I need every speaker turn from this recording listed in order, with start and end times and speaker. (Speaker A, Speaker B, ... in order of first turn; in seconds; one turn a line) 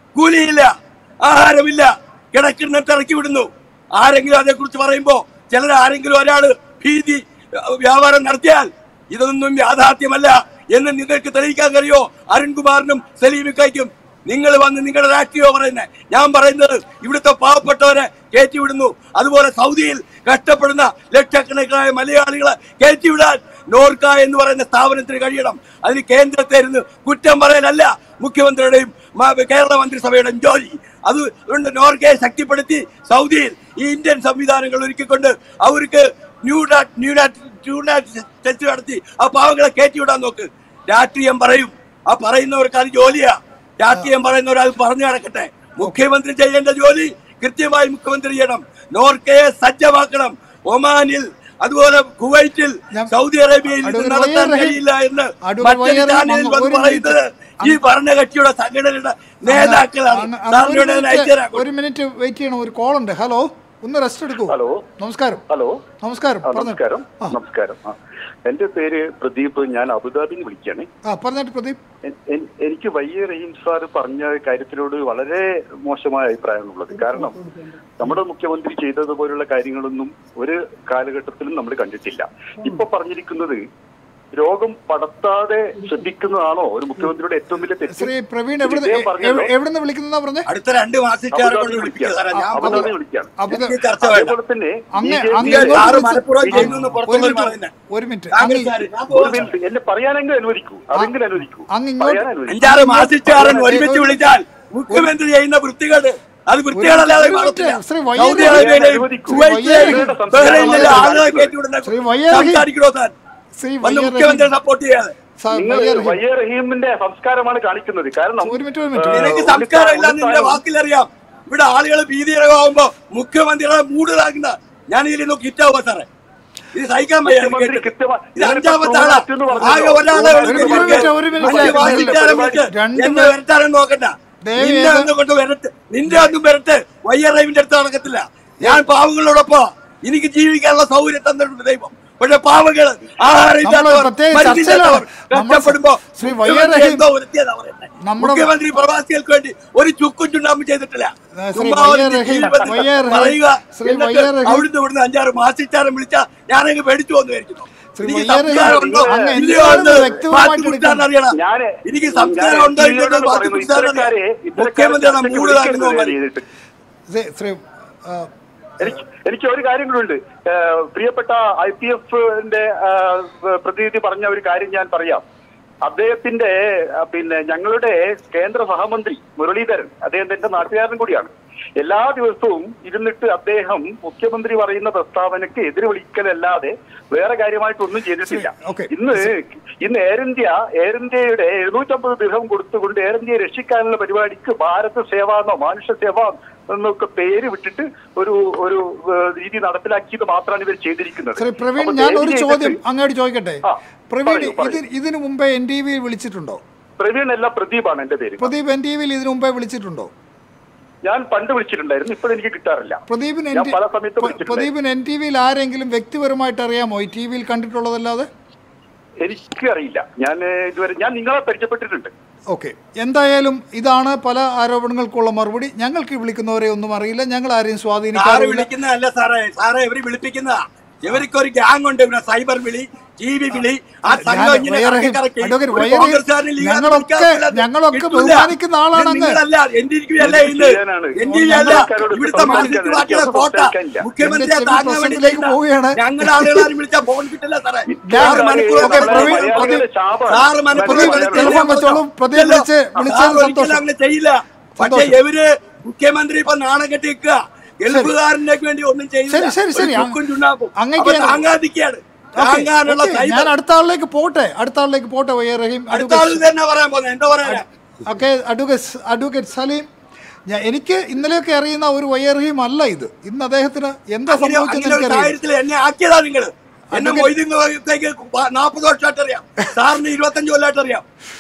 Speaker A: 0.1-61.6
Speaker B: 53.7-54.8
Speaker B: 55.4-57.8
Speaker B: 59.4-65.4
Speaker C: 64.5-64.8
Speaker C: 65.5-65.8
Speaker B: 66.0-67.3
Speaker C: 66.4-68.0
Speaker C: 68.5-70.9
Speaker B: 71.1-71.8
Speaker C: 72.1-77.4
Speaker C: 78.0-83.6
Speaker C: 84.3-88.1
Speaker B: 87.9-90.5
Speaker C: 88.6-89.5
Speaker A: 90.5-92.9
Speaker C: 91.3-97.2
Speaker B: 92.3-93.8
Speaker A: 93.5-94.4
Speaker B: 94.9-98.8
Speaker A: 95.4-97.7
Speaker A: 98.3-99.5
Speaker C: 99.1-102.8
Speaker B: 101.7-104.2
Speaker A: 102.5-113.1
Speaker B: 106.7-108.7
Speaker C: 108.2-111.5
Speaker B: 109.3-111.1
Speaker B: 111.8-112.7
Speaker B: 113.6-114.5
Speaker A: 113.8-115.1
Speaker B: 115.4-116.2
Speaker C: 115.5-120.6
Speaker B: 118.4-119.5
Speaker A: 119.1-126.1
Speaker A: 126.7-166.2
Speaker C: 127.2-132.7
Speaker B: 130.4-133.3
Speaker B: 134.4-135.1
Speaker B: 143.6-147.0
Speaker B: 148.0-148.5
Speaker B: 151.4-154.7
Speaker B: 158.0-161.1
Speaker C: 158.5-160.2
Speaker C: 161.4-166.5
Speaker B: 167.1-168.3
Speaker C: 168.8-175.2
Speaker C: 175.8-202.8
Speaker B: 188.3-188.9
Speaker B: 201.4-206.6
Speaker C: 203.6-204.8
Speaker C: 207.0-208.5
Speaker B: 208.4-210.1
Speaker C: 211.0-213.0
Speaker B: 213.1-218.3
Speaker C: 213.5-214.7
Speaker C: 219.2-222.1
Speaker B: 222.5-228.7
Speaker A: 228.2-263.5
Speaker B: 234.1-239.4
Speaker C: 240.2-244.1
Speaker B: 241.2-242.8
Speaker B: 244.2-246.7
Speaker C: 247.9-251.6
Speaker B: 248.1-249.8
Speaker B: 250.8-253.8
Speaker B: 254.8-255.2
Speaker B: 259.3-260.2
Speaker B: 260.8-261.4
Speaker B: 262.4-266.4
Speaker A: 265.9-267.7
Speaker B: 267.4-269.9
Speaker B: 270.5-275.3
Speaker A: 274.3-281.1
Speaker B: 276.9-277.3